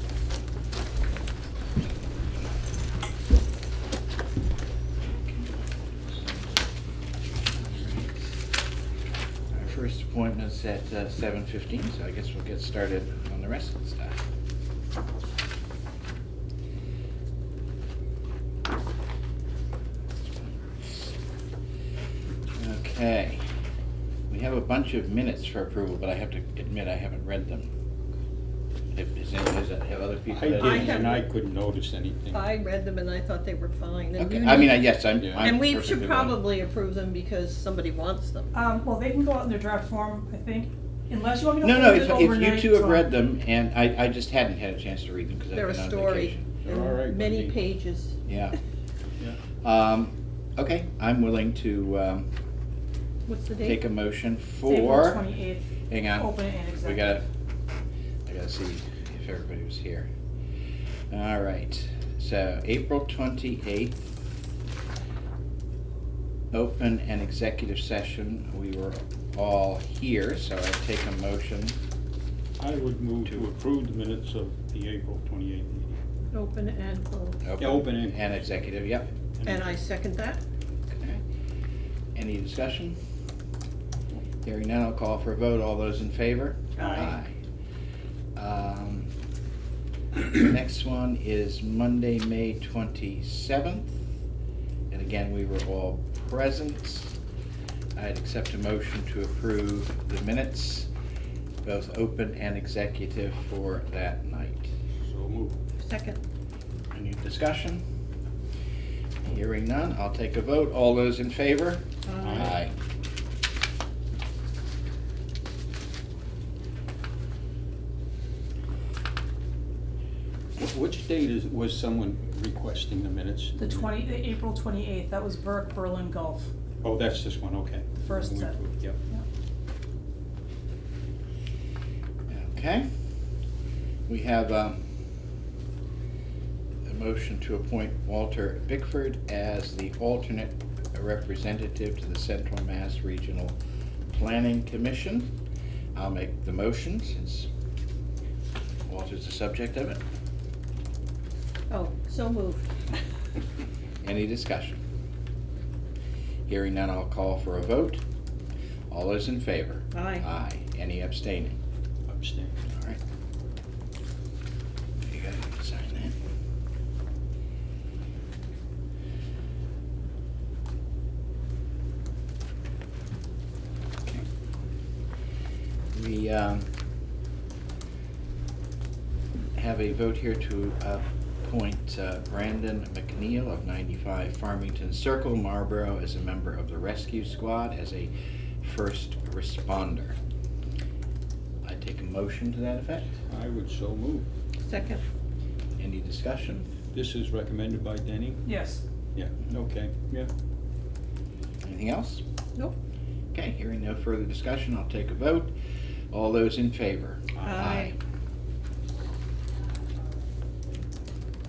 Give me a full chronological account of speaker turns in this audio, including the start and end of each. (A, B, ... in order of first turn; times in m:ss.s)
0:05.1-0:06.4 A
0:07.5-0:08.3 A
0:09.5-0:14.2 A
0:20.2-0:21.1 A
0:22.6-0:23.4 A
0:24.3-0:27.7 A
0:28.9-0:31.1 A
0:30.3-0:32.4 B
0:30.6-0:31.2 C
0:32.3-0:38.5 C
0:34.2-0:36.4 A
0:35.2-0:35.4 B
0:38.5-0:43.0 D
0:41.6-0:46.5 A
0:45.5-0:48.2 C
0:46.6-0:47.5 B
0:48.2-0:48.5 A
0:49.6-0:52.3 A
0:53.2-0:53.8 C
0:53.6-0:55.2 A
0:54.6-0:57.2 D
0:55.9-0:57.2 A
0:58.2-1:00.1 A
1:01.1-1:04.1 A
1:06.5-1:11.8 A
1:12.6-1:16.0 B
1:16.3-1:17.4 C
1:17.4-1:19.1 A
1:17.6-1:18.2 B
1:19.4-1:19.7 B
1:19.4-1:20.4 C
1:20.9-1:21.2 A
1:22.1-1:23.0 A
1:24.4-1:27.4 A
1:26.8-1:27.1 D
1:28.4-1:29.1 A
1:30.3-1:34.0 A
1:34.9-1:37.1 A
1:38.0-1:40.9 A
1:41.6-1:44.7 A
1:45.0-1:45.6 B
1:45.8-1:46.2 C
1:46.9-1:47.8 A
1:49.2-1:52.7 A
1:52.0-1:52.6 C
1:52.2-1:52.5 B
2:00.6-2:04.0 B
2:03.6-2:06.5 D
2:06.8-2:09.0 B
2:08.0-2:09.2 D
2:12.3-2:12.8 A
2:14.1-2:14.8 A
2:16.8-2:23.6 A
2:24.1-2:25.3 A
2:25.9-2:27.5 A
2:28.9-2:30.0 A
2:31.7-2:32.7 C
2:34.0-2:34.8 A
2:36.5-2:38.0 A
2:38.9-2:41.6 A
2:39.9-2:40.2 C
2:42.1-2:42.6 B
2:42.7-2:43.0 A
2:45.0-2:46.2 A
2:55.9-2:56.7 A
2:59.5-3:10.2 A
3:11.6-3:13.1 A
3:13.2-3:14.3 B
3:14.6-3:15.0 C
3:15.8-3:16.6 A
3:16.9-3:18.4 B
3:18.4-3:18.8 D
3:19.1-3:20.3 B
3:21.6-3:22.2 A
3:23.3-3:25.5 A
3:26.1-3:27.9 A
3:27.4-3:27.9 C